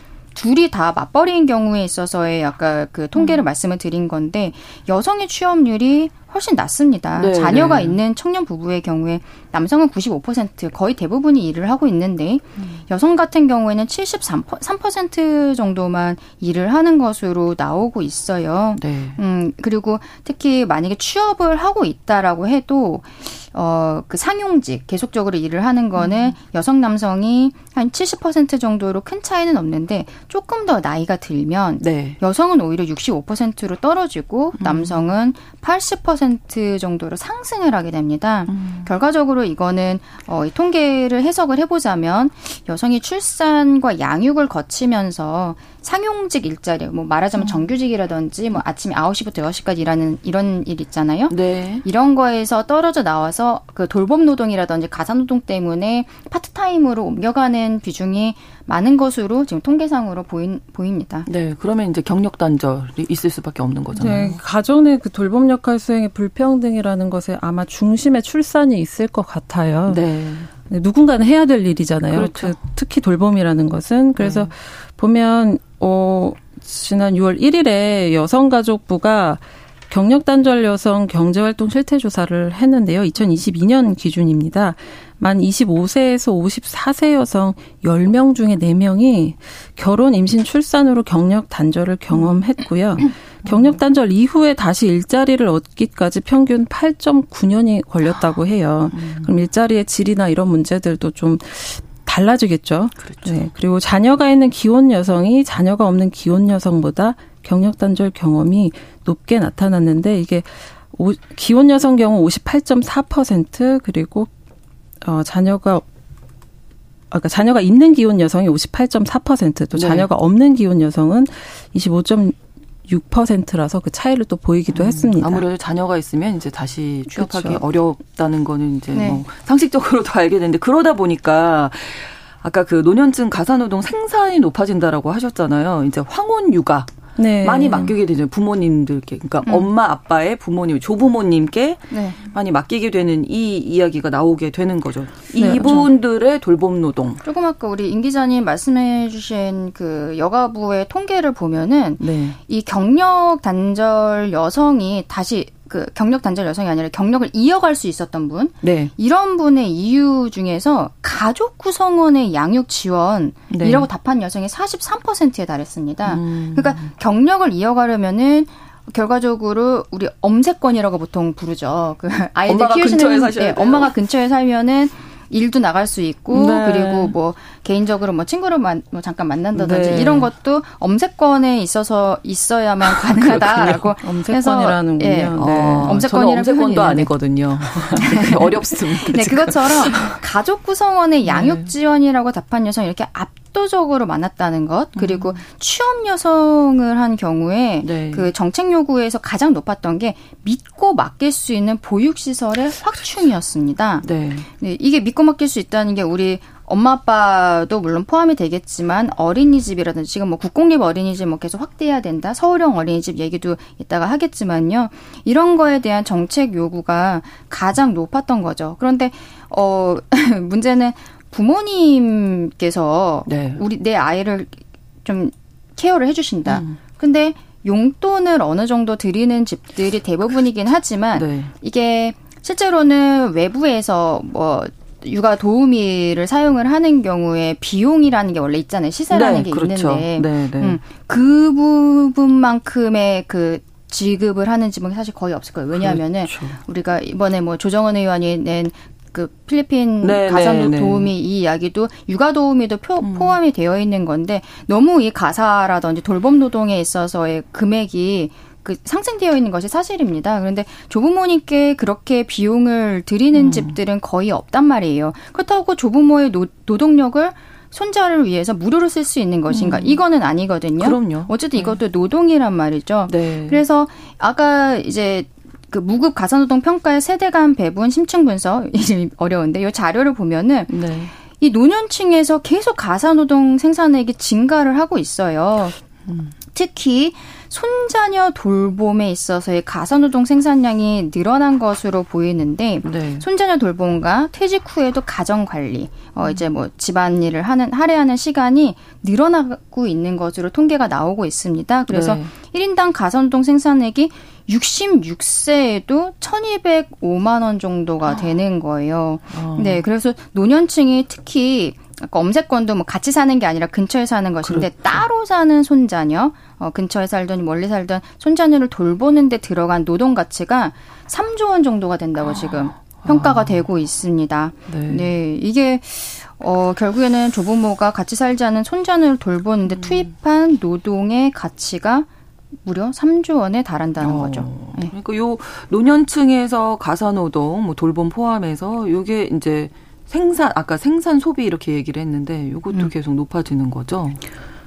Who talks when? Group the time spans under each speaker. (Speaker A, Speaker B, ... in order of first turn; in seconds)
Speaker A: 0.3-61.3, 128.9-129.2, 141.9-142.2, 145.6-145.9, 147.2-187.2, 188.0-280.8, 281.3-285.8, 286.5-332.1, 332.6-334.9
Speaker B: 3.2-3.4, 7.2-8.0, 18.8-19.2, 26.0-26.4, 31.8-32.2, 34.6-35.1, 38.5-38.9, 51.3-51.9, 61.3-64.4, 69.9-70.5, 72.1-72.6, 74.2-74.5, 93.5-93.8, 98.9-99.3, 103.0-103.5, 119.8-120.1, 124.7-147.2, 152.0-152.4, 158.6-158.9, 163.5-163.9, 166.1-166.9, 172.5-173.9, 176.3-177.1, 179.6-180.3, 182.8-183.9, 185.3-190.2, 191.2-191.7, 195.0-195.4, 197.8-198.3, 204.0-204.5, 223.3-223.6, 226.5-226.8, 231.1-231.5, 239.1-240.8, 245.7-246.6, 250.0-251.1, 253.0-253.4, 263.3-263.8, 269.5-270.0, 270.8-271.8, 273.1-273.6, 280.7-281.1, 286.1-286.3, 292.8-293.2, 301.9-302.3, 309.3-309.9, 314.4-315.1, 322.3-323.6, 324.7-325.1, 329.7-330.1, 334.0-344.2
Speaker C: 64.0-70.0, 70.7-114.3, 115.0-115.8, 117.1-125.5, 127.1-127.6, 137.2-138.0, 145.4-145.8, 184.0-186.1